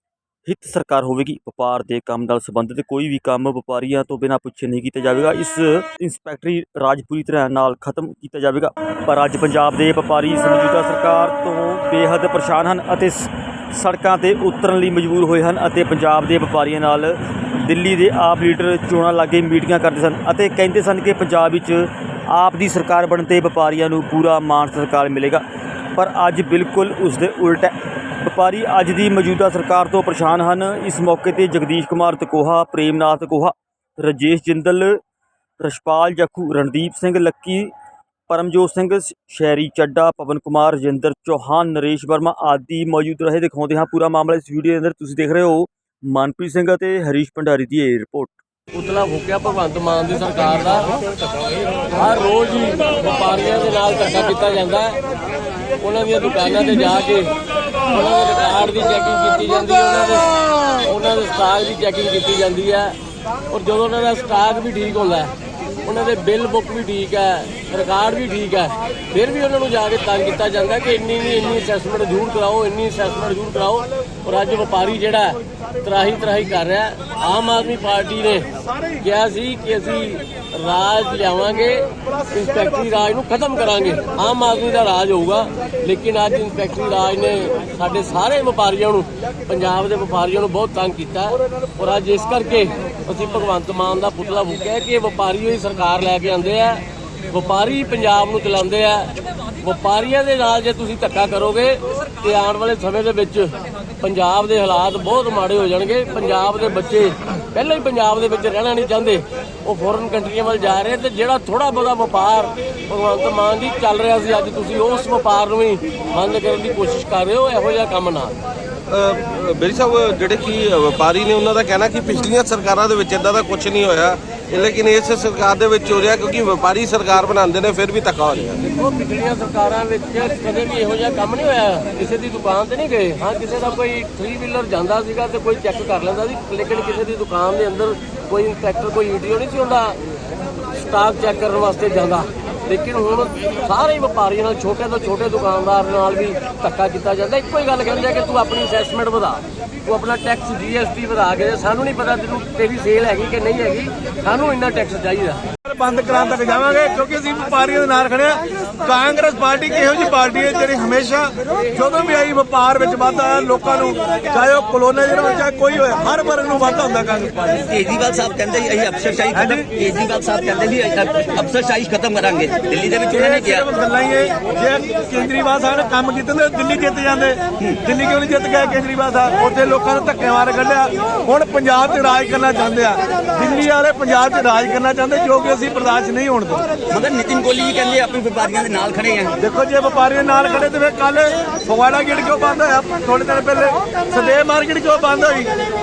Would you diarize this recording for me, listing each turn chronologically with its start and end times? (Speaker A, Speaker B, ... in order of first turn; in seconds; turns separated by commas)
Speaker A: 0.5-25.4, Speaker A: 25.9-35.0, Speaker A: 35.6-37.7, Speaker A: 38.3-48.4, Speaker B: 48.7-50.9, Speaker B: 51.9-55.0, Speaker B: 55.8-63.0, Speaker B: 63.5-118.4, Speaker C: 118.9-128.6, Speaker B: 128.6-140.0, Speaker B: 140.7-155.4, Speaker D: 155.7-167.7, Speaker E: 167.7-173.7, Speaker D: 169.3-169.7, Speaker D: 173.1-186.6, Speaker E: 186.9-189.4, Speaker D: 189.4-195.5